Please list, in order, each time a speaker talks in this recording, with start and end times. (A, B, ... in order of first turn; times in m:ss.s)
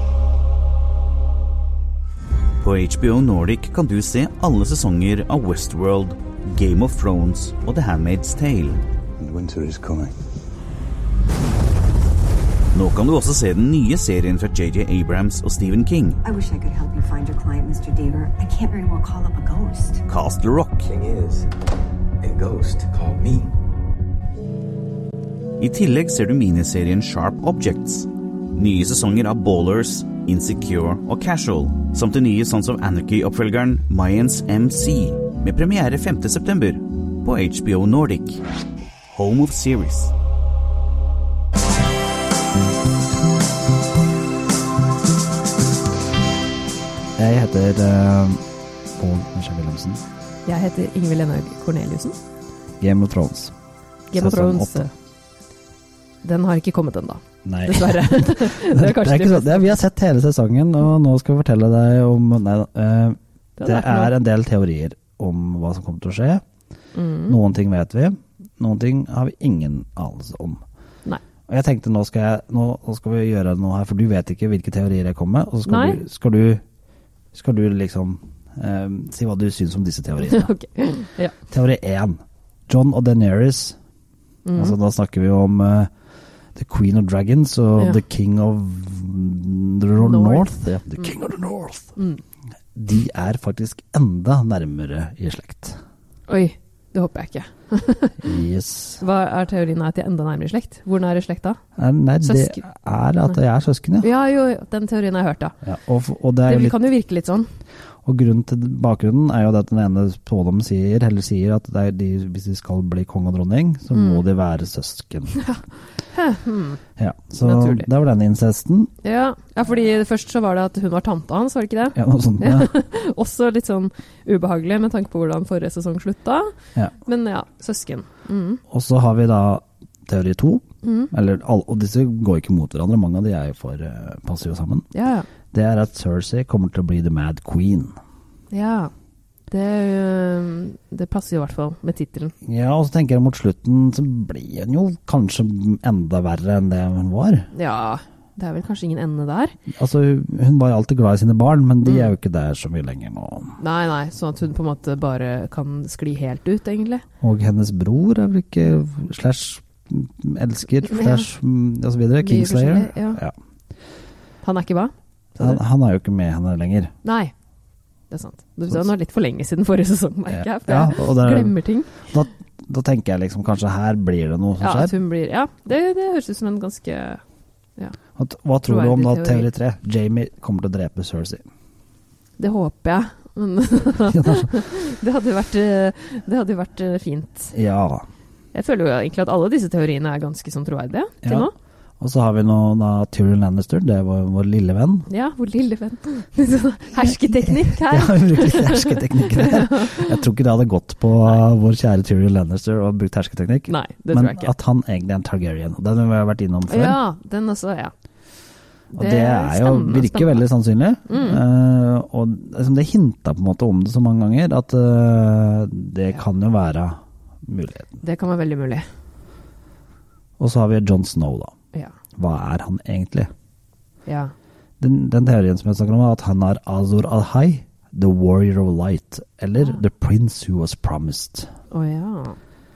0:02.6-0:08.8 A
0:09.2-0:10.2 B
0:12.7-0:16.2 A
0:16.2-0:20.0 C
0:20.1-0:20.9 A
0:20.8-0:21.5 B
0:22.2-0:23.5 B
0:25.6-0:38.4 A
0:39.1-0:40.1 A
0:47.2-0:48.4 D
0:49.0-0:50.0 D
0:50.5-0:51.0 C
0:50.5-0:52.2 E
0:52.8-0:53.5 D
0:54.1-0:54.8 E
0:54.1-0:54.9 D
0:56.2-0:57.2 E
0:56.6-0:57.0 C
0:57.4-1:06.4 D
0:57.7-0:59.6 E
1:03.6-1:04.1 E
1:07.0-1:07.4 E
1:07.3-1:10.6 D
1:11.5-1:16.6 D
1:17.3-1:20.5 D
1:21.0-1:21.3 E
1:21.5-1:23.8 D
1:24.5-1:24.7 E
1:24.6-1:25.9 D
1:26.6-1:32.0 D
1:30.1-1:30.4 E
1:32.8-1:35.8 D
1:36.4-1:38.0 E
1:37.0-1:37.8 C
1:38.2-1:39.0 D
1:39.0-1:41.6 E
1:39.9-1:40.5 C
1:41.8-1:44.1 D
1:42.2-1:42.6 E
1:44.2-1:45.3 C
1:44.6-1:45.5 E
1:45.6-1:46.8 D
1:46.5-1:47.4 E
1:48.0-1:55.4 D
1:56.2-1:56.8 E
1:57.0-1:58.9 D
1:57.5-1:57.8 E
1:59.1-2:06.4 E
2:02.0-2:02.7 D
2:03.0-2:03.8 C
2:04.3-2:06.4 C
2:07.1-2:08.6 E
2:08.7-2:14.9 D
2:15.5-2:18.0 D
2:18.6-2:18.9 E
2:19.5-2:22.1 C
2:19.6-2:22.3 E
2:22.4-2:27.5 D
2:27.6-2:29.5 E
2:28.4-2:29.4 C
2:29.7-2:33.6 D
2:33.7-2:37.0 E
2:33.8-2:36.8 C
2:37.2-2:43.3 D
2:42.3-2:43.2 E
2:44.4-2:44.9 E
2:45.4-2:46.9 D
2:48.2-2:52.0 E
2:49.3-2:50.0 C
2:50.3-2:55.0 D
2:54.6-2:57.2 E
2:55.2-2:56.1 C
2:58.2-3:01.4 D
2:58.7-2:59.4 E
3:02.4-3:07.5 E
3:02.4-3:03.5 C
3:04.1-3:04.5 D
3:05.7-3:07.2 C
3:07.5-3:08.1 D
3:08.6-3:11.5 E
3:08.6-3:09.9 C
3:11.2-3:15.1 D
3:15.2-3:19.0 E
3:15.3-3:16.4 C
3:17.4-3:27.1 D
3:23.8-3:24.5 E
3:26.7-3:27.9 E
3:27.2-3:27.8 C
3:28.9-3:38.0 D
3:29.0-3:30.4 E
3:38.0-3:38.8 E
3:38.3-3:38.7 C
3:40.4-3:41.5 D
3:42.2-3:43.3 D
3:44.8-3:51.5 D
3:51.8-3:52.4 E
3:51.8-3:52.2 C